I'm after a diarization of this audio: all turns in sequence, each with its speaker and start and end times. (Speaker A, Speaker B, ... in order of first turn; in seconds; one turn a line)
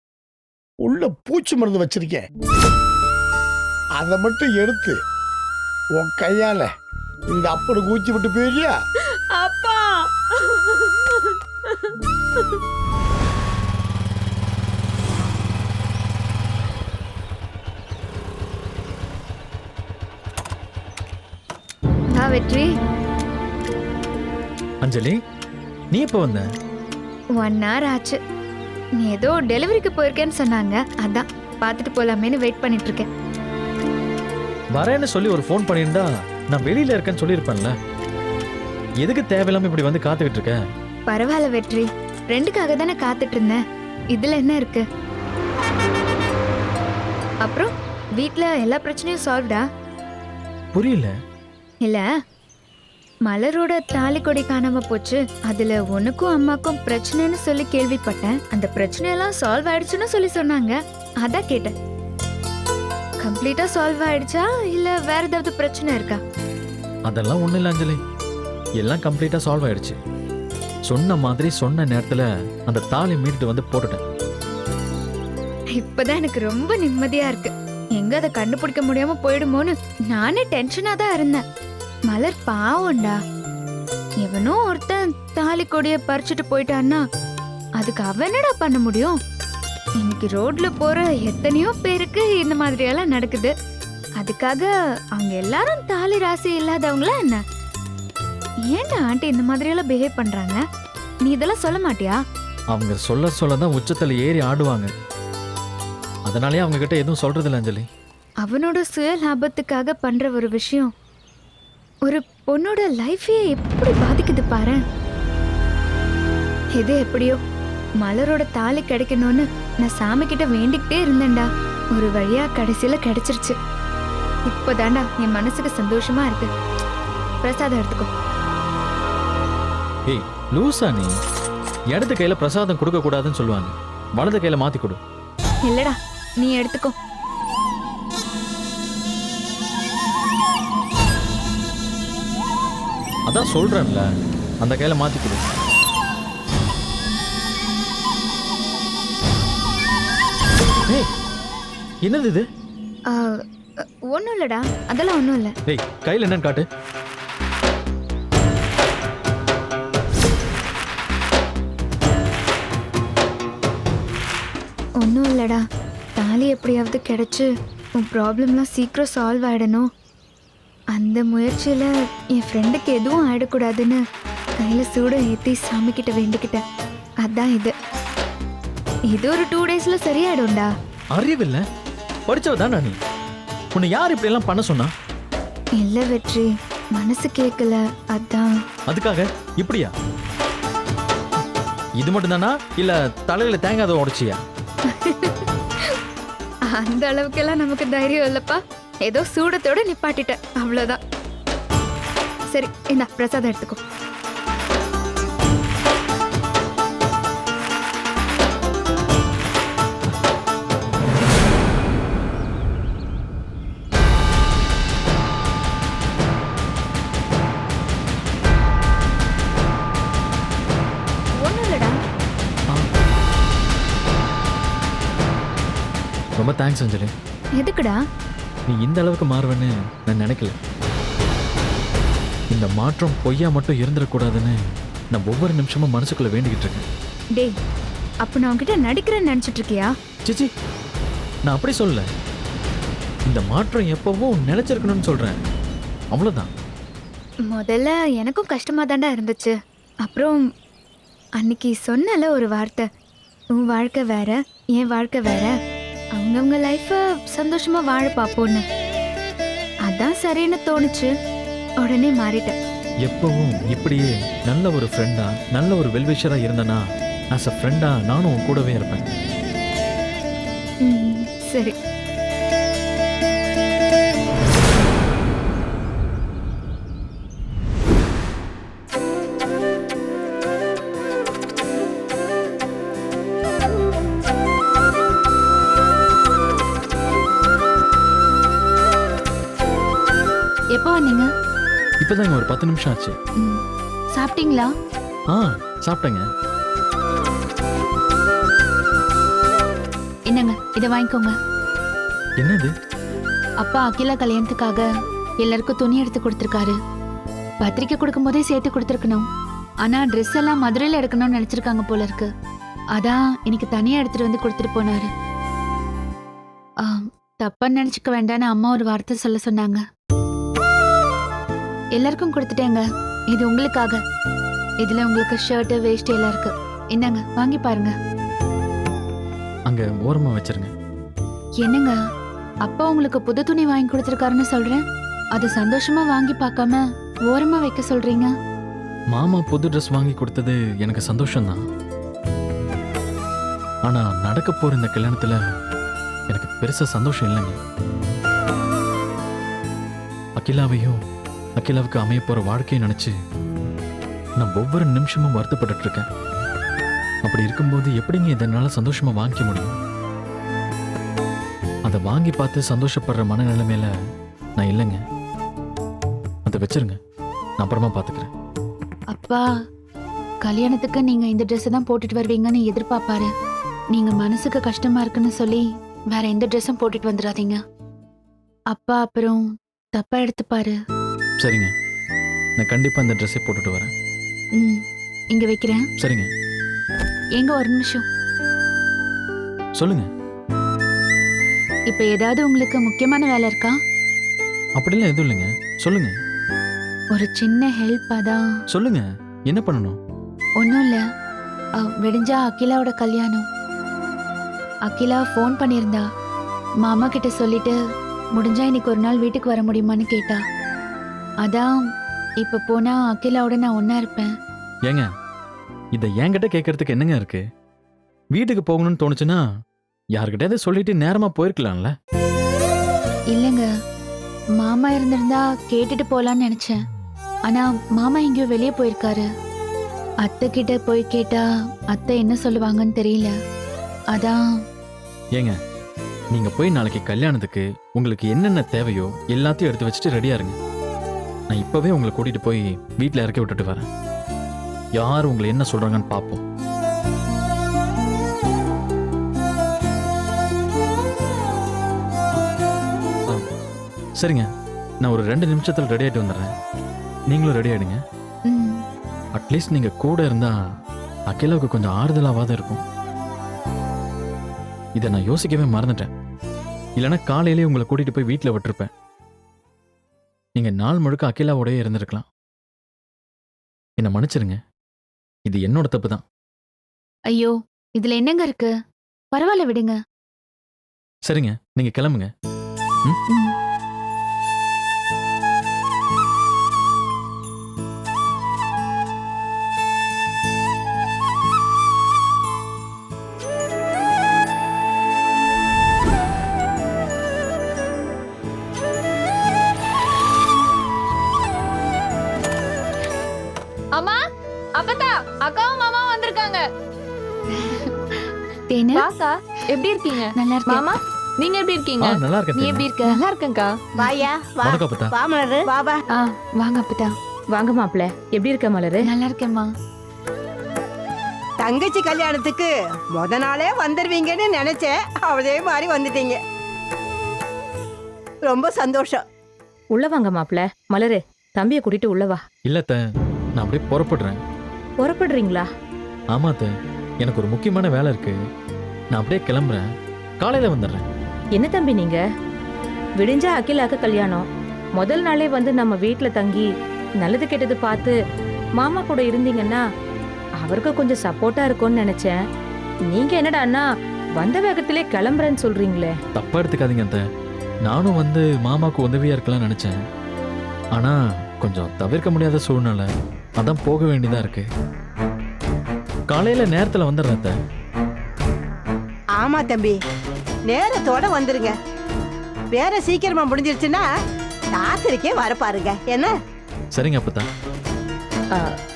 Speaker A: 0.8-2.2
Speaker A: 4.0-5.0
Speaker A: 5.9-6.7
Speaker A: 7.3-8.8
Speaker B: 9.3-12.0
Speaker C: 22.1-22.7
Speaker D: 24.8-25.1
Speaker D: 25.9-26.4
Speaker C: 27.4-28.2
Speaker C: 29.0-33.0
Speaker D: 34.8-37.7
Speaker D: 39.0-40.6
Speaker C: 41.1-43.6
Speaker C: 44.1-44.8
Speaker C: 47.4-49.6
Speaker D: 50.7-51.1
Speaker C: 53.3-61.7
Speaker C: 63.2-66.2
Speaker D: 67.1-68.0
Speaker D: 68.8-70.0
Speaker D: 70.9-74.0
Speaker C: 75.8-81.4
Speaker C: 82.1-83.2
Speaker C: 84.2-87.0
Speaker C: 87.8-89.2
Speaker C: 90.0-93.5
Speaker C: 94.2-97.4
Speaker C: 98.7-100.6
Speaker C: 101.2-102.2
Speaker D: 102.7-104.9
Speaker D: 106.3-107.9
Speaker C: 108.4-110.9
Speaker C: 112.1-114.8
Speaker C: 116.8-117.4
Speaker C: 118.0-123.5
Speaker C: 124.5-126.5
Speaker C: 127.4-128.1
Speaker D: 130.1-131.1
Speaker D: 131.9-135.0
Speaker C: 135.7-136.9
Speaker D: 143.3-144.1
Speaker D: 144.6-145.4
Speaker D: 152.1-152.5
Speaker C: 154.1-155.5
Speaker D: 155.7-156.7
Speaker C: 165.0-165.6
Speaker C: 166.2-167.5
Speaker C: 168.0-169.9
Speaker C: 170.9-174.0
Speaker C: 174.6-176.6
Speaker C: 177.2-177.7
Speaker C: 179.1-180.7
Speaker D: 181.1-181.6
Speaker D: 182.3-183.0
Speaker D: 183.8-184.9
Speaker C: 185.8-188.5
Speaker D: 188.9-189.9
Speaker D: 192.0-194.4
Speaker C: 194.9-195.4
Speaker C: 196.7-201.0
Speaker C: 202.5-203.8
Speaker C: 221.4-221.9
Speaker D: 226.4-227.1
Speaker C: 227.6-228.0
Speaker D: 228.7-230.6
Speaker D: 232.5-234.6
Speaker D: 235.1-236.8
Speaker C: 238.2-239.9
Speaker D: 241.5-242.0
Speaker D: 243.3-245.4
Speaker D: 246.1-246.5
Speaker C: 247.5-249.5
Speaker C: 250.0-250.4
Speaker C: 251.4-252.8
Speaker C: 253.6-255.5
Speaker C: 256.2-258.6
Speaker C: 259.9-261.1
Speaker C: 261.8-262.5
Speaker D: 263.0-266.8
Speaker D: 267.3-269.1
Speaker C: 270.9-271.7
Speaker E: 290.8-291.3
Speaker D: 292.0-293.1
Speaker E: 294.1-294.7
Speaker D: 295.3-296.2
Speaker E: 300.3-301.3
Speaker D: 302.4-302.7
Speaker E: 303.6-304.8
Speaker E: 305.4-306.8
Speaker E: 307.6-309.2
Speaker E: 309.8-312.3
Speaker E: 313.0-315.1
Speaker E: 316.8-319.8
Speaker E: 321.9-324.0
Speaker E: 324.8-327.9
Speaker D: 329.7-330.7
Speaker E: 331.6-331.9
Speaker E: 332.6-334.8
Speaker E: 335.3-338.3
Speaker D: 339.1-341.6
Speaker D: 343.9-345.4
Speaker D: 346.3-347.6
Speaker D: 350.4-351.0
Speaker D: 351.6-353.1
Speaker D: 354.4-356.1
Speaker D: 357.2-359.7
Speaker D: 361.8-363.9
Speaker D: 364.6-365.0
Speaker D: 366.4-367.0
Speaker D: 367.6-368.3
Speaker E: 369.1-369.4
Speaker E: 370.4-373.3
Speaker E: 373.9-377.6
Speaker E: 378.7-379.4
Speaker E: 379.9-380.8
Speaker D: 381.4-381.7
Speaker D: 382.6-383.9
Speaker E: 385.3-385.8
Speaker D: 386.0-386.3
Speaker E: 387.4-388.0
Speaker D: 389.8-390.1
Speaker E: 391.9-393.8
Speaker D: 394.8-396.1
Speaker E: 397.1-398.4
Speaker D: 398.7-400.0
Speaker E: 400.6-401.0
Speaker E: 401.9-403.4
Speaker E: 404.9-406.0
Speaker E: 406.8-407.8
Speaker E: 408.4-410.4
Speaker E: 411.4-411.7
Speaker E: 412.4-414.3
Speaker D: 415.9-417.4
Speaker D: 418.3-419.4
Speaker D: 420.1-421.9
Speaker E: 423.3-423.7
Speaker E: 424.6-426.8
Speaker E: 427.5-429.3
Speaker E: 430.2-433.3
Speaker E: 434.1-434.4
Speaker D: 436.3-440.6
Speaker D: 441.5-443.9
Speaker D: 445.0-446.4
Speaker D: 454.2-454.5
Speaker D: 455.0-456.5
Speaker D: 457.3-458.0
Speaker E: 458.5-458.8
Speaker D: 459.3-460.6
Speaker D: 461.3-462.8
Speaker D: 464.9-466.1
Speaker D: 467.0-468.9
Speaker D: 470.6-472.2
Speaker D: 474.0-474.6
Speaker D: 475.4-476.2
Speaker E: 477.3-478.7
Speaker E: 479.3-480.0
Speaker D: 481.3-482.3
Speaker F: 503.9-504.2
Speaker F: 504.8-506.6
Speaker E: 508.7-509.1
Speaker F: 508.9-512.2
Speaker E: 510.4-510.8
Speaker D: 512.0-512.9
Speaker E: 512.6-513.1
Speaker F: 513.0-513.8
Speaker G: 514.0-516.0
Speaker D: 514.6-515.1
Speaker E: 516.1-517.1
Speaker H: 517.5-519.0
Speaker E: 519.0-519.7
Speaker G: 521.6-526.4
Speaker G: 528.5-529.2
Speaker H: 530.0-532.4
Speaker D: 532.7-533.0
Speaker D: 533.6-534.4
Speaker H: 535.0-535.6
Speaker D: 536.3-536.7
Speaker D: 537.2-538.4
Speaker D: 539.1-539.9
Speaker D: 540.4-541.0
Speaker H: 541.6-542.2
Speaker H: 543.2-544.4
Speaker H: 545.0-546.6
Speaker H: 547.2-548.1
Speaker H: 548.8-549.8
Speaker H: 550.6-552.3
Speaker H: 553.1-553.8
Speaker H: 554.4-556.1
Speaker D: 556.4-557.2
Speaker D: 557.9-560.0
Speaker D: 561.0-563.1
Speaker D: 563.6-564.7
Speaker D: 566.3-567.5
Speaker G: 569.4-570.0
Speaker G: 570.7-571.8
Speaker G: 572.7-574.0
Speaker G: 574.8-576.3
Speaker D: 576.9-577.5